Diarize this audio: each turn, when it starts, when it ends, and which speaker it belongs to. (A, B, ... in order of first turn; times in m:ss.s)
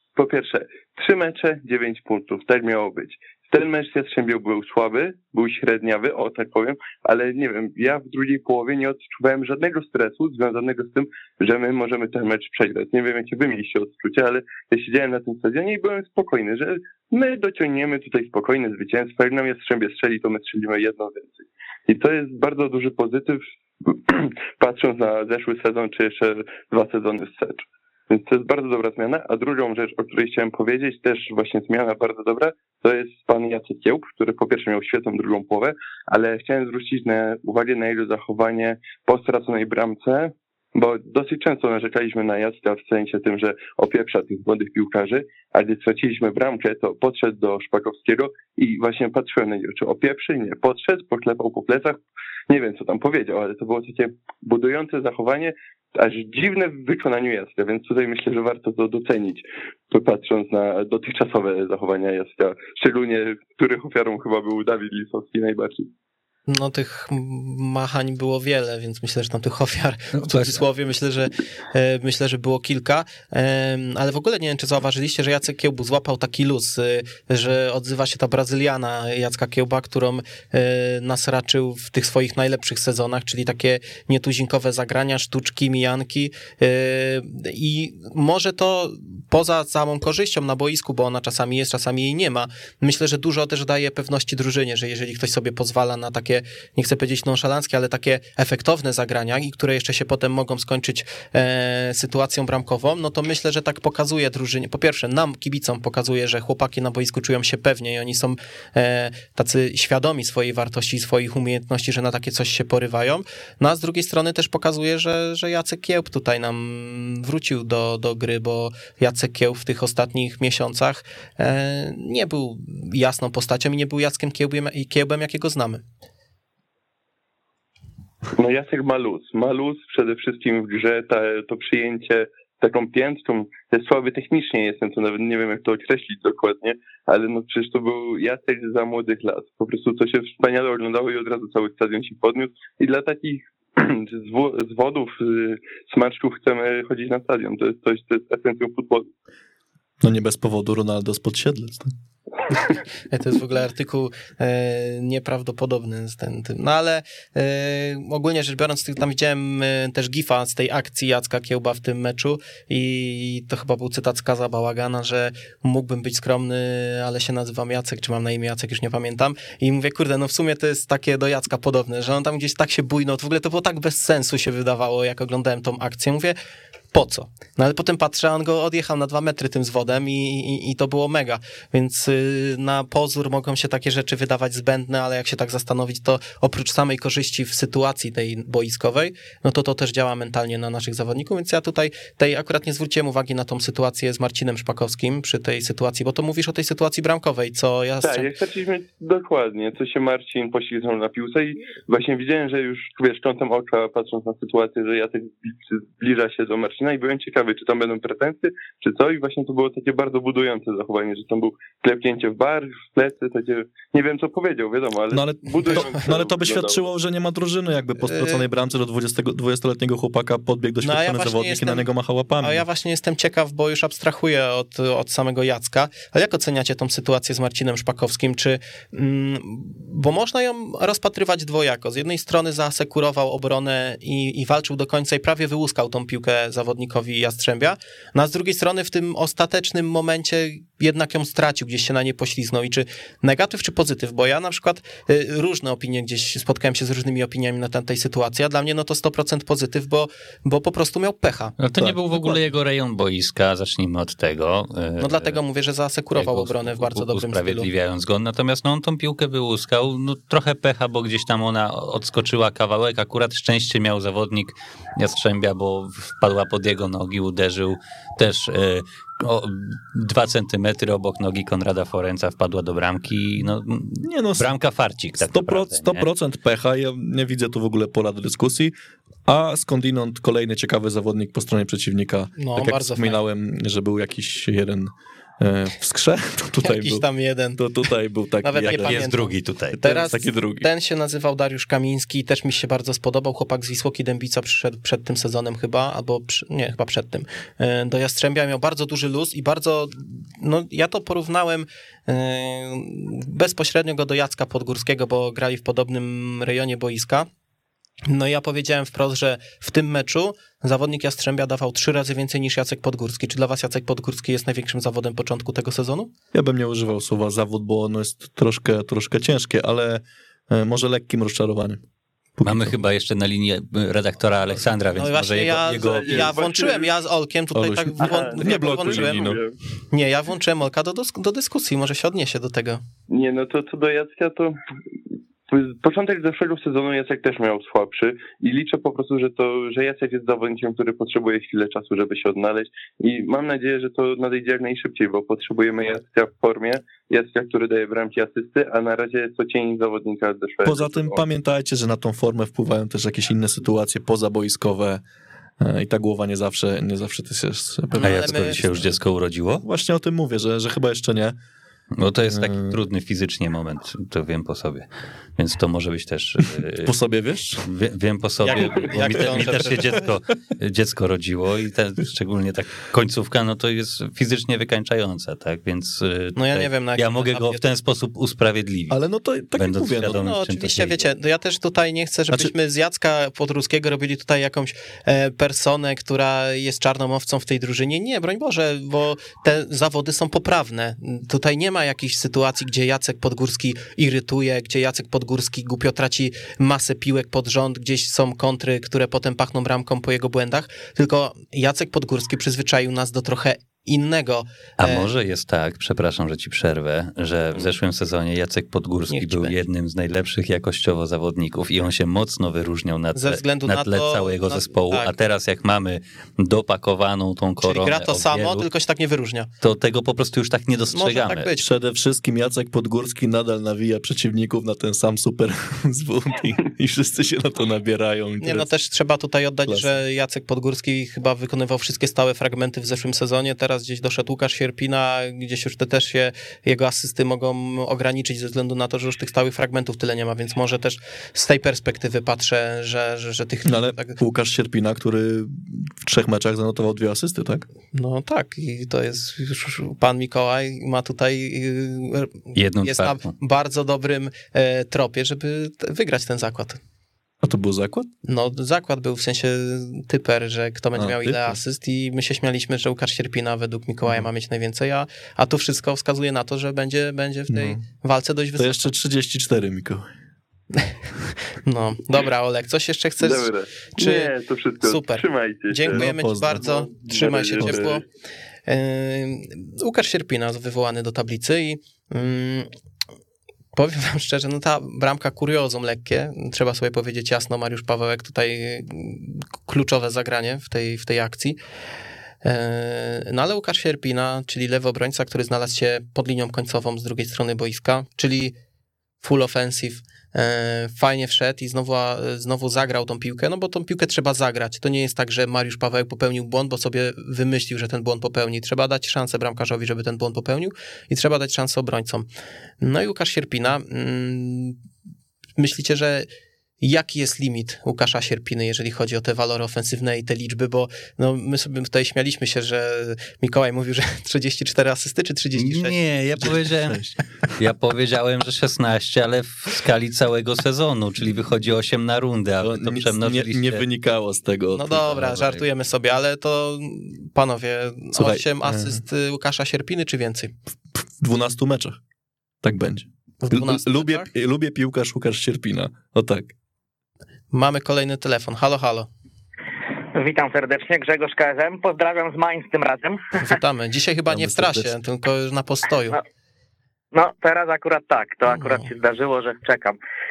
0:00.2-1:05.9 A
1:06.5-2:05.8 B
1:10.2-1:10.6 C
2:08.4-2:29.1 A
2:30.0-2:31.9 D
2:33.1-2:56.4 B
2:56.9-3:18.3 B
3:18.0-3:36.8 A
3:35.1-3:42.6 D
3:38.0-3:38.4 B
3:40.8-3:41.9 B
3:42.4-4:11.6 B
4:11.6-4:15.4 C
4:11.8-4:12.4 D
4:15.0-4:17.7 B
4:16.2-4:36.1 C
4:34.0-4:34.5 D
4:35.2-4:38.8 D
4:39.3-4:49.1 D
4:42.4-4:43.2 B
4:46.6-4:47.6 B
4:48.4-5:07.3 B
4:48.6-4:50.1 C
4:49.7-4:50.7 D
5:08.1-5:16.1 B
5:16.3-5:21.8 D
5:22.4-5:22.7 D
5:22.4-5:26.4 C
5:25.0-5:29.4 B
5:25.8-5:26.9 A
5:27.5-5:29.4 D
5:28.0-5:29.6 A
5:29.9-5:32.8 B
5:33.1-5:34.6 A
5:35.5-5:51.2 A
5:50.6-5:55.0 D
5:55.6-5:58.9 D
5:58.0-5:58.6 B
5:58.0-5:59.6 C
5:59.6-6:01.4 D
6:02.0-6:06.9 C
6:02.3-6:02.8 D
6:06.8-6:07.7 D
6:07.6-6:19.0 C
6:08.4-6:10.0 B
6:09.1-6:09.7 D
6:16.4-6:17.6 B
6:18.9-6:20.2 D
6:19.6-6:21.1 C
6:20.2-6:45.1 B
6:44.8-6:58.7 C
6:49.1-6:49.6 B
6:53.2-6:55.1 B
6:57.6-6:59.5 B
6:59.6-7:01.5 C
7:00.9-7:01.7 B
7:01.6-7:08.7 D
7:08.4-7:24.2 B
7:09.7-7:10.0 D
7:23.7-7:27.6 D
7:27.9-7:36.8 B
7:32.6-7:33.3 C
7:37.4-7:38.1 D
7:38.2-7:48.9 B
7:41.0-7:41.6 D
7:47.5-7:47.8 D
7:48.6-7:50.1 D
7:51.6-7:58.0 B
7:53.2-7:58.0 A
7:55.9-7:56.7 D
7:57.6-7:57.9 D
7:58.7-8:02.7 B
8:03.8-8:11.6 B
8:12.4-8:18.6 B
8:19.2-8:32.3 B
8:32.8-8:34.8 B
8:35.6-8:36.3 B
8:36.8-8:46.0 B
8:45.6-8:47.0 C
8:46.4-8:47.5 D
8:47.6-8:53.8 C
8:52.6-8:55.1 D
8:54.7-9:00.5 B
8:55.1-8:55.6 C
8:58.1-8:59.0 D
9:01.2-9:02.0 D
9:02.6-9:06.5 D
9:03.4-9:04.3 B
9:07.5-9:09.1 B
9:10.2-9:13.2 E
9:13.4-9:16.2 B
9:14.3-9:14.9 D
9:17.1-9:20.0 E